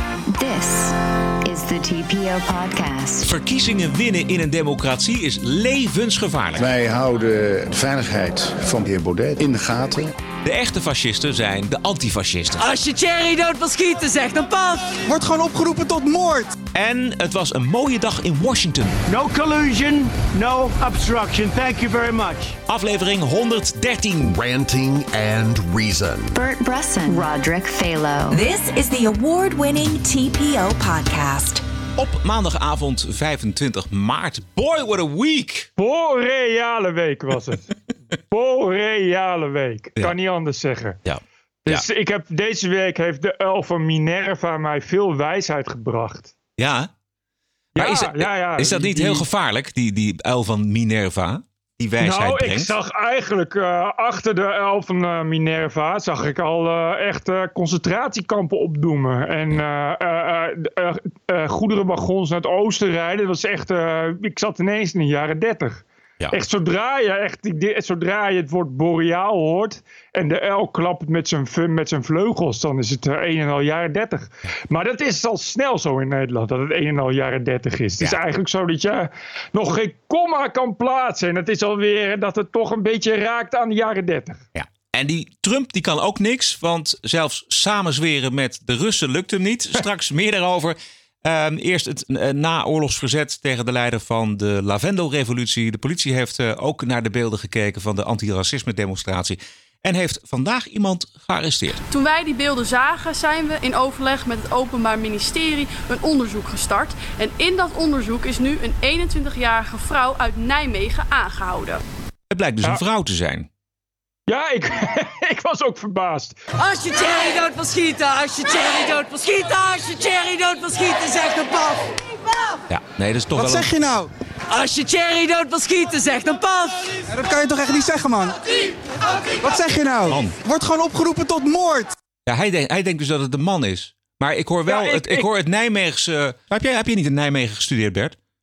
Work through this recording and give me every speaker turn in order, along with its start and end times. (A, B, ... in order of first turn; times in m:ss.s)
0:00.3-0:03.3 A
0:03.2-0:06.6 B
0:06.6-0:10.1 C
0:10.4-0:12.6 B
0:12.6-0:15.0 D
0:15.0-0:16.5 E
0:16.7-0:19.0 B
0:19.1-0:22.6 F
0:22.7-0:24.4 B
0:24.2-0:26.4 G
0:26.4-0:28.4 A
0:28.3-0:31.6 H
0:32.0-0:35.7 B
0:35.8-0:37.7 I
0:38.3-0:41.0 I
0:41.0-0:41.8 B
0:41.6-0:46.3 I
0:46.6-0:46.9 B
0:47.7-0:52.7 B
0:47.8-0:49.2 I
0:52.0-1:24.4 I
1:24.5-1:41.8 B
1:41.9-1:51.8 J
1:52.3-1:53.5 B
1:54.3-1:56.4 I
1:56.6-2:01.9 D
2:02.7-2:03.9 B
2:03.4-2:04.1 E
2:04.5-2:07.0 D
2:07.1-2:08.4 E
2:09.4-2:11.9 E
2:10.1-2:10.4 B
2:12.2-2:18.2 B
2:14.7-2:15.3 I